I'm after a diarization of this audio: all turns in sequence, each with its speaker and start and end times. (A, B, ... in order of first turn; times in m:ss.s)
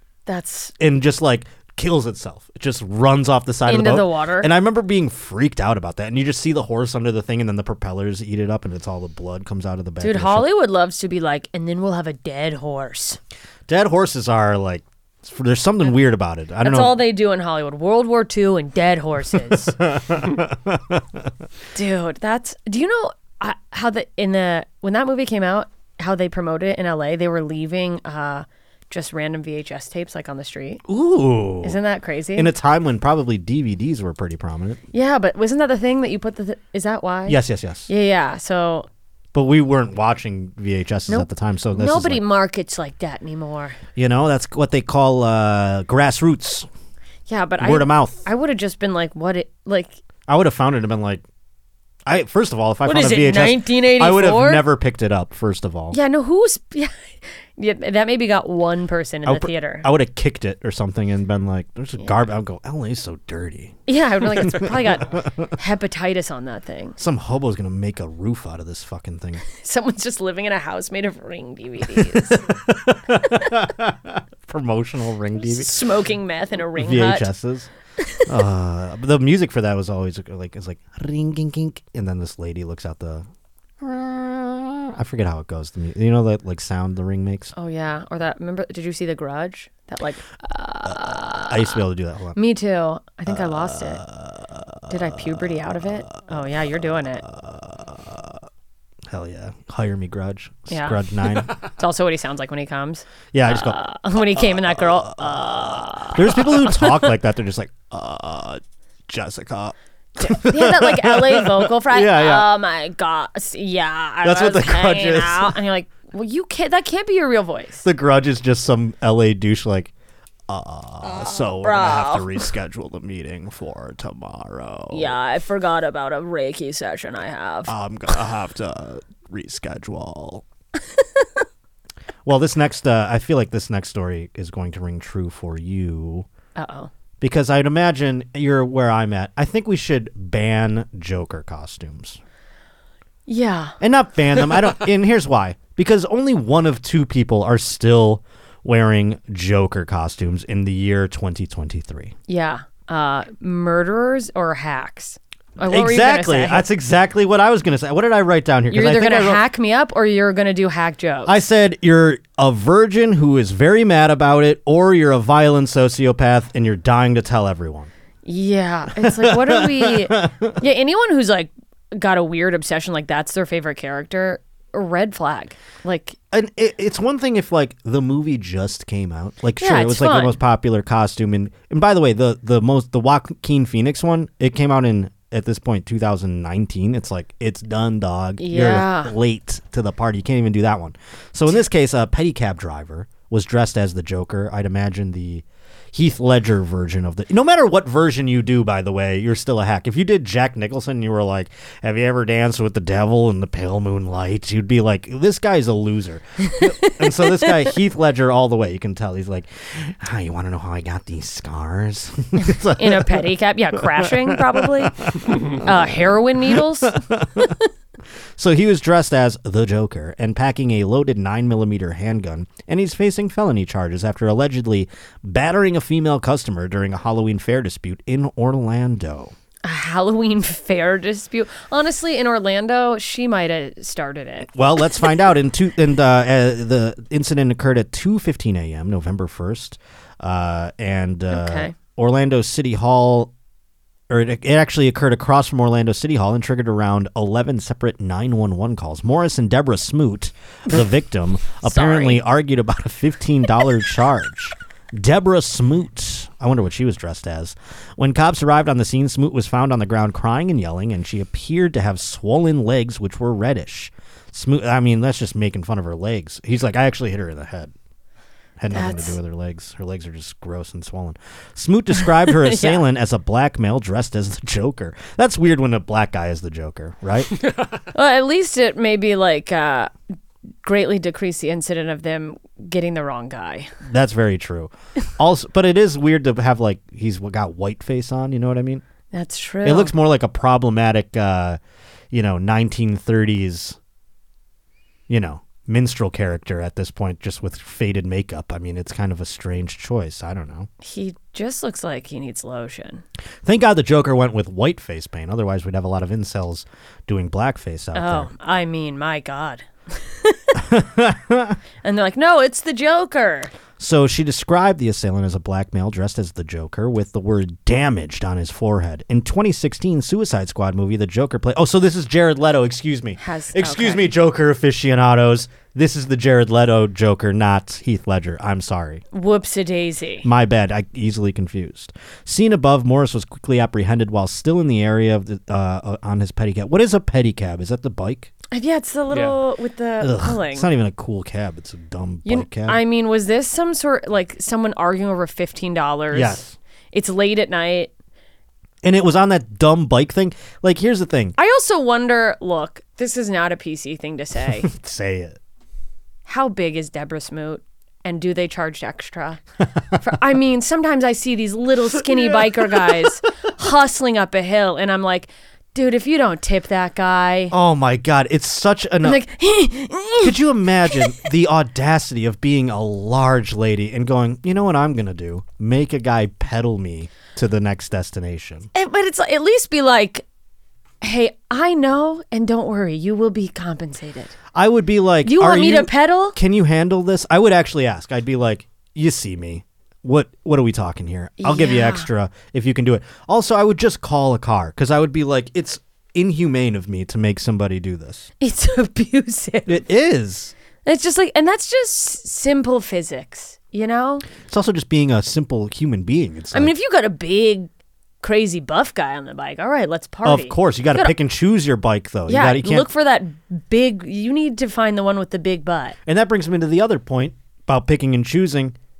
0:00.3-0:00.7 A
0:00.8-0:10.5 B
0:03.6-0:04.5 A
0:10.0-0:13.2 A
0:13.7-0:17.0 B
0:16.6-0:19.8 A
0:19.8-0:21.0 B
0:21.7-0:30.8 A
0:30.8-0:31.8 B
0:31.6-0:32.5 A
0:32.3-0:34.8 B
0:34.9-0:38.9 A
0:37.3-0:37.9 B
0:39.3-0:42.2 B
0:41.1-0:43.8 A
0:44.0-0:46.7 B
0:47.3-0:50.0 A
0:47.6-0:48.2 B
0:50.3-0:51.2 B
0:52.0-0:56.0 B
0:52.8-0:54.6 A
0:55.9-0:59.9 A
0:59.2-1:05.5 B
1:03.8-1:07.0 A
1:07.0-1:09.4 B
1:09.5-1:12.4 A
1:12.0-1:15.8 B
1:15.4-1:17.3 A
1:16.7-1:17.7 B
1:18.2-1:23.2 B
1:23.8-1:27.5 B
1:27.5-1:31.8 A
1:30.8-1:32.4 B
1:32.3-1:34.0 A
1:33.3-1:35.4 B
1:34.9-1:37.2 A
1:37.2-1:38.4 B
1:39.1-1:41.5 B
1:40.7-1:47.0 A
1:43.3-1:43.8 B
1:44.4-1:52.5 B
1:50.2-1:57.8 A
1:54.2-1:55.6 B
1:57.8-1:59.9 B
2:00.5-2:05.2 B
2:01.0-2:02.4 A
2:04.9-2:07.7 A
2:07.7-2:10.4 B
2:11.0-2:11.3 A
2:12.2-2:16.2 B
2:16.6-2:16.9 A
2:17.2-2:22.2 B
2:23.3-2:23.8 A
2:23.8-2:32.1 B
2:32.3-2:36.6 A
2:35.6-2:39.4 B
2:38.7-2:41.4 A
2:41.2-2:47.9 B
2:48.2-2:56.2 A
2:49.0-2:50.6 B
2:56.3-3:35.7 B
2:59.6-3:00.3 A
3:08.4-3:09.1 A
3:26.5-3:27.5 A
3:32.5-3:37.6 A
3:36.5-3:37.6 B
3:38.4-3:49.3 B
3:49.6-3:54.5 A
3:54.5-4:03.3 B
4:01.3-4:01.8 A
4:04.1-4:27.7 B
4:11.6-4:12.2 A
4:28.6-4:37.3 B
4:28.7-4:29.2 A
4:32.2-4:32.8 A
4:37.9-4:39.9 A
4:40.6-4:43.7 A
4:43.8-4:48.8 B
4:49.1-4:49.9 A
4:49.6-4:51.6 B
4:52.1-4:53.8 B
4:55.1-5:00.7 B
5:00.8-5:03.0 A
5:03.4-5:08.3 B
5:07.9-5:10.4 A
5:10.5-5:11.6 B
5:11.8-5:13.5 A
5:13.8-5:29.0 B
5:23.2-5:24.1 A
5:29.1-5:30.3 A
5:30.2-5:38.3 B
5:38.5-5:40.7 A
5:40.0-5:42.8 B
5:42.2-5:47.9 A
5:46.1-5:46.5 B
5:48.8-5:51.4 B
5:51.4-5:54.7 A
5:54.6-5:55.4 B
5:56.2-5:59.4 A
6:00.0-6:07.5 A
6:02.2-6:02.8 B
6:07.5-6:09.2 B
6:09.0-6:11.1 A
6:10.2-6:18.7 B
6:18.7-6:20.2 A
6:21.0-6:24.4 A
6:24.5-6:38.3 B
6:25.2-6:26.4 A
6:31.4-6:32.1 A
6:38.4-6:39.8 A
6:39.6-6:40.5 B
6:40.8-6:44.2 A
6:44.4-6:46.7 B
6:46.5-6:47.7 A
6:48.2-6:51.1 A
6:50.2-6:52.9 B
6:52.3-6:56.0 A
6:56.0-6:58.7 B